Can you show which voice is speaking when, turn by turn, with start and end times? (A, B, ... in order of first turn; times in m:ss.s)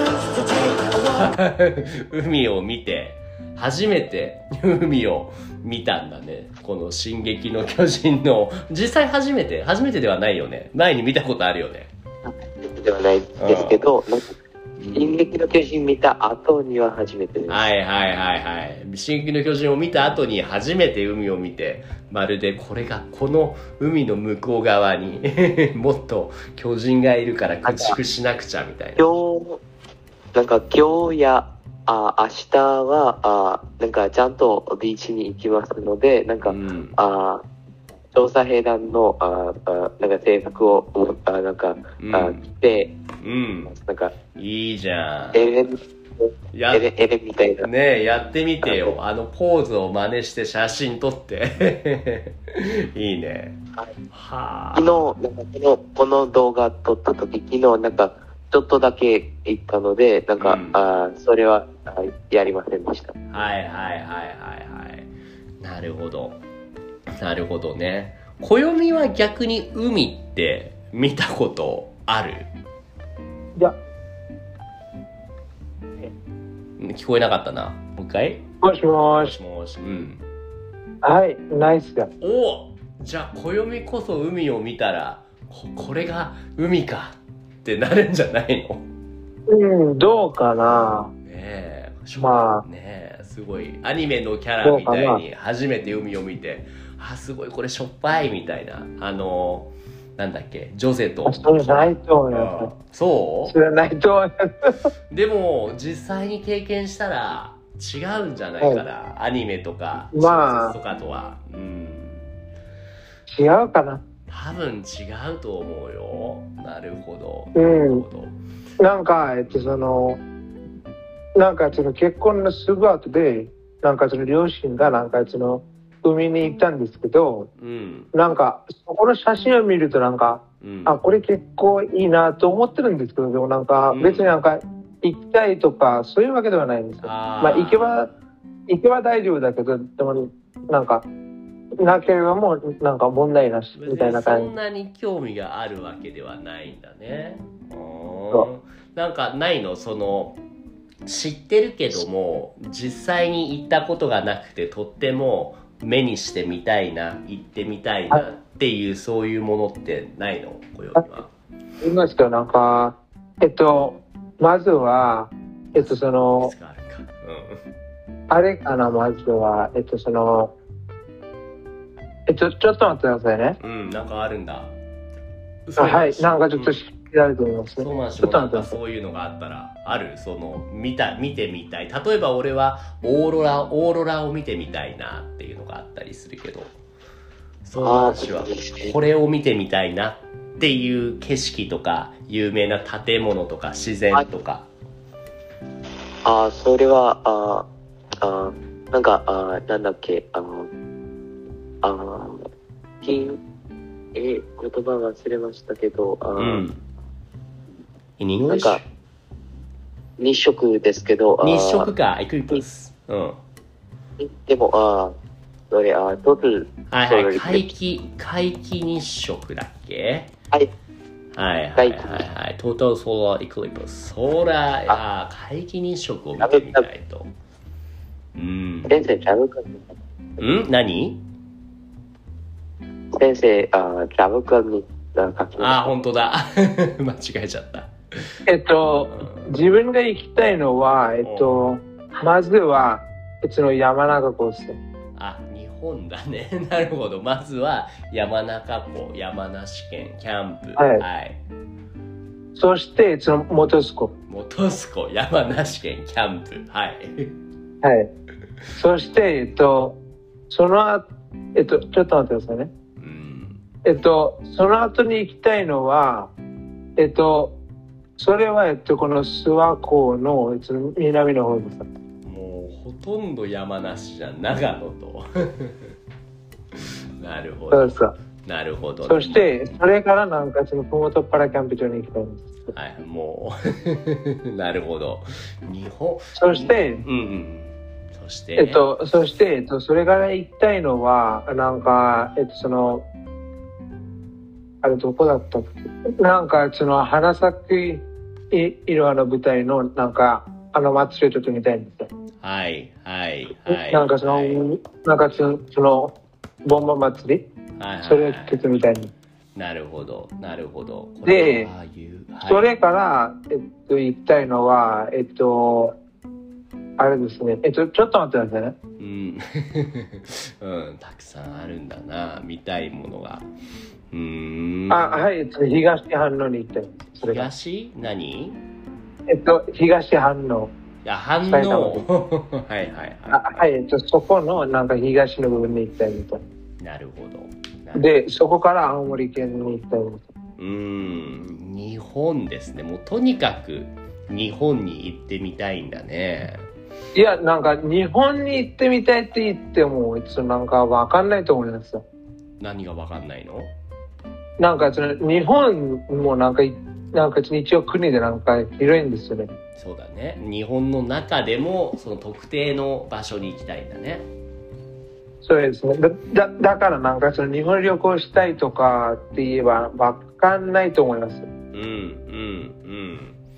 0:00.4-0:11.9 A
0:12.3-0:14.4 B
0:13.4-0:13.8 A
0:14.8-0:15.4 A
0:14.9-0:17.7 B
0:17.5-0:29.0 A
0:27.6-0:28.0 B
0:29.0-0:29.6 B
0:30.3-0:37.4 B
0:36.4-0:37.0 A
0:38.1-0:43.0 B
0:42.0-0:42.4 A
0:43.2-0:43.7 A
0:43.7-0:44.2 B
0:44.3-0:45.5 A
0:45.3-0:47.7 B
0:46.5-0:46.9 A
0:47.6-0:53.6 A
0:48.6-0:48.9 B
0:54.1-0:55.0 A
0:54.7-1:03.2 B
1:00.4-1:00.8 A
1:03.3-1:05.1 A
1:05.6-1:06.4 A
1:07.2-1:12.5 A
1:16.8-1:18.4 A
1:18.6-1:19.4 C
1:19.1-1:20.2 A
1:21.0-1:22.1 C
1:22.2-1:28.8 A
1:29.5-1:31.1 C
1:30.7-1:43.5 A
1:32.2-1:32.6 C
1:34.6-1:35.2 C
1:41.2-1:42.7 C
1:43.4-1:44.8 C
1:45.1-1:52.3 A
1:50.1-1:50.8 C
1:53.3-1:54.0 C
1:54.3-1:58.4 A
1:57.5-1:58.0 C
1:58.8-2:00.2 C
1:59.5-1:59.8 A
2:01.3-2:07.5 C
2:07.6-2:08.1 A
2:08.1-2:18.1 C
2:10.6-2:11.0 A
2:13.9-2:14.3 A
2:17.0-2:18.1 A
2:18.7-2:21.0 C
2:21.8-2:24.5 C
2:23.8-2:30.4 A
2:31.0-2:41.3 A
2:40.9-2:41.2 C
2:41.8-2:46.5 C
2:45.7-2:47.6 A
2:48.3-2:50.5 C
2:52.3-2:53.6 C
2:53.6-2:54.7 A
2:55.6-2:56.8 A
2:55.8-2:58.8 C
2:57.8-3:06.7 A
3:07.6-3:14.7 A
3:07.8-3:08.9 B
3:16.2-3:17.7 B
3:18.2-3:20.7 B
3:21.8-3:22.4 B
3:23.0-3:23.4 B
3:24.1-3:26.6 B
3:26.4-3:26.8 A
3:28.2-3:28.8 A
3:28.5-3:28.8 B
3:30.2-3:31.9 B
3:31.4-3:33.4 A
3:34.2-3:35.1 B
3:35.7-3:37.7 B
3:36.9-3:40.3 A
3:41.3-3:47.3 A
3:41.8-3:42.2 B
3:46.4-3:46.8 B
3:48.4-3:48.9 A
3:48.9-3:50.0 B
3:50.4-3:51.2 A
3:53.1-3:55.9 B
3:55.6-3:58.3 A
3:58.5-4:04.8 C
3:59.0-3:59.6 A
4:01.2-4:01.6 A
4:05.2-4:11.4 A
4:10.8-4:11.0 C
4:12.5-4:14.1 C
4:14.3-4:17.4 A
4:17.8-4:18.1 C
4:18.7-4:20.0 C
4:20.5-4:22.7 C
4:23.0-4:23.6 A
4:23.8-4:26.3 C
4:27.0-4:27.6 C
4:28.2-4:31.8 C
4:32.2-4:35.9 A
4:36.7-4:39.5 A
4:37.7-4:38.1 C
4:39.0-4:42.7 C
4:42.7-4:48.8 A
4:46.4-4:47.0 C
4:48.6-4:53.0 C
4:54.8-5:02.1 C
5:02.4-5:04.6 A
5:03.7-5:07.4 C
5:07.8-5:08.6 A
5:08.0-5:09.1 C
5:09.5-5:12.7 A
5:11.2-5:11.7 C
5:12.4-5:16.0 C
5:17.0-5:18.8 C
5:19.0-5:23.5 A
5:24.1-5:25.3 A
5:24.9-5:27.5 C
5:27.2-5:28.6 A
5:29.3-5:30.7 C
5:31.0-5:33.6 A
5:31.4-5:32.0 C
5:33.3-5:36.4 C
5:36.8-5:38.0 A
5:37.9-5:40.2 C
5:40.6-5:46.6 A
5:47.1-5:52.0 C
5:52.6-5:53.7 A
5:54.6-5:59.5 C
5:59.8-6:04.3 A
6:05.4-6:11.5 C
6:11.7-6:13.4 A